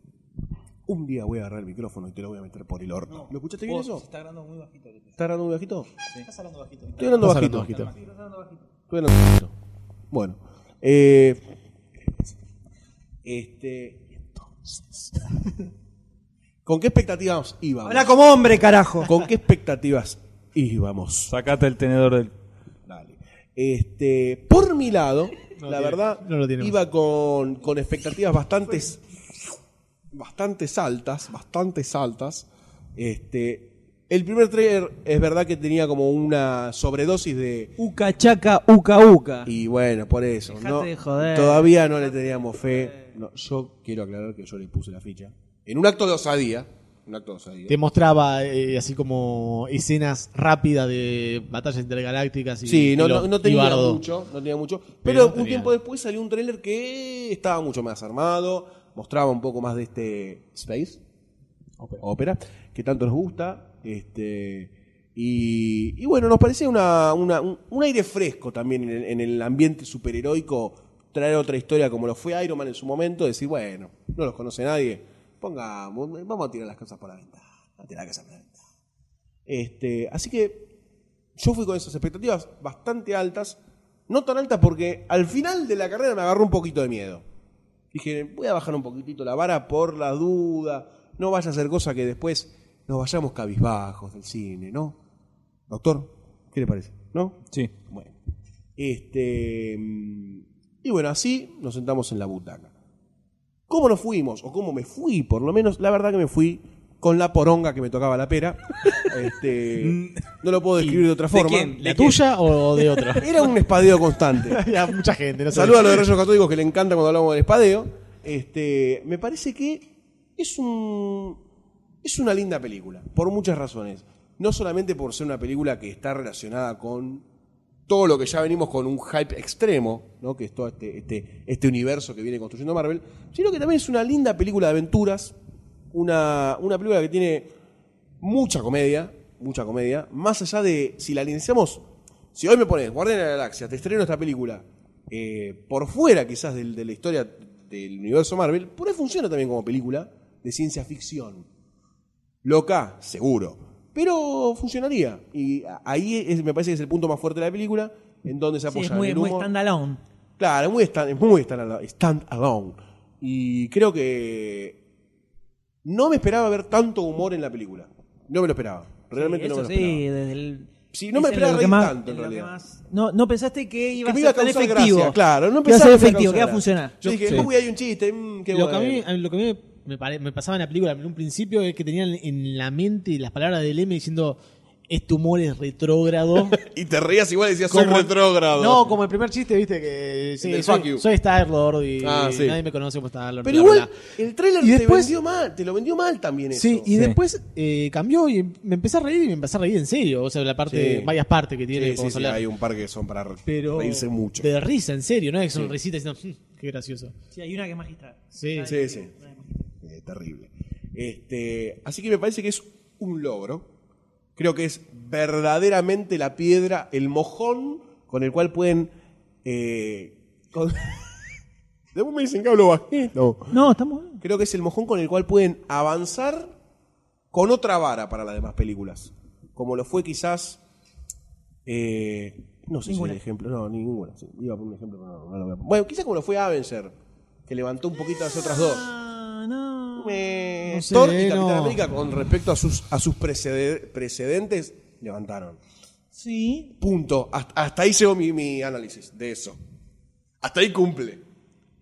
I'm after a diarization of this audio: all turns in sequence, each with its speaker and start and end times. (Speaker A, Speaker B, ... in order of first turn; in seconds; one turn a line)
Speaker A: 0.8-4.0
Speaker B: 3.1-5.2
Speaker A: 5.2-5.9
Speaker C: 6.2-7.9
Speaker A: 7.0-7.9
Speaker D: 7.9-8.6
Speaker A: 8.9-9.5
Speaker A: 10.1-11.4
Speaker A: 13.2-15.3
Speaker A: 16.6-18.2
Speaker D: 17.8-19.2
Speaker A: 19.0-21.3
Speaker B: 21.3-22.3
Speaker A: 22.9-29.4
Speaker C: 25.6-26.8
Speaker A: 30.1-37.7
Speaker D: 37.8-39.5
Speaker A: 39.5-47.8
Speaker D: 40.5-43.1
Speaker C: 47.7-54.0
Speaker A: 52.6-61.0
Speaker C: 55.0-55.7
Speaker A: 62.0-78.6
Speaker A: 79.5-80.7
Speaker A: 81.3-87.2
Speaker A: 87.9-95.0
Speaker A: 95.7-98.1
Speaker A: 98.8-102.7
Speaker A: 103.7-111.8
Speaker B: 109.8-110.2
Speaker B: 110.8-113.2
Speaker C: 111.8-113.3
Speaker A: 113.2-114.6
Speaker C: 114.4-116.1
Speaker A: 115.5-121.4
Speaker A: 122.0-127.2
Speaker A: 127.9-135.3
Speaker A: 135.9-137.5
Speaker A: 138.2-141.8
Speaker A: 142.3-151.5
Speaker A: 152.4-159.5
Speaker D: 158.7-160.0
Speaker A: 160.4-164.8
Speaker A: 165.8-170.0
Speaker D: 169.1-177.3
Speaker A: 170.9-172.5
Speaker A: 174.0-179.0
Speaker C: 177.1-177.4
Speaker C: 178.5-186.6
Speaker A: 186.4-189.0
Speaker C: 187.7-194.1
Speaker A: 190.4-191.1
Speaker A: 192.0-192.6
Speaker A: 193.4-196.9
Speaker C: 194.6-195.2
Speaker C: 196.5-202.4
Speaker B: 196.9-197.2
Speaker A: 200.7-201.1
Speaker A: 201.7-204.5
Speaker C: 203.4-207.1
Speaker D: 207.3-209.7
Speaker C: 208.3-208.8
Speaker A: 208.7-209.1
Speaker A: 209.8-213.7
Speaker A: 214.3-218.9
Speaker A: 219.4-221.3
Speaker A: 221.9-223.5
Speaker D: 223.5-224.2
Speaker A: 224.2-226.5
Speaker A: 227.3-230.6
Speaker A: 231.7-236.9
Speaker D: 232.8-233.2
Speaker A: 237.5-238.9
Speaker D: 238.2-240.5
Speaker A: 240.0-245.6
Speaker C: 240.7-241.8
Speaker D: 246.1-246.7
Speaker A: 246.8-249.6
Speaker A: 250.4-251.2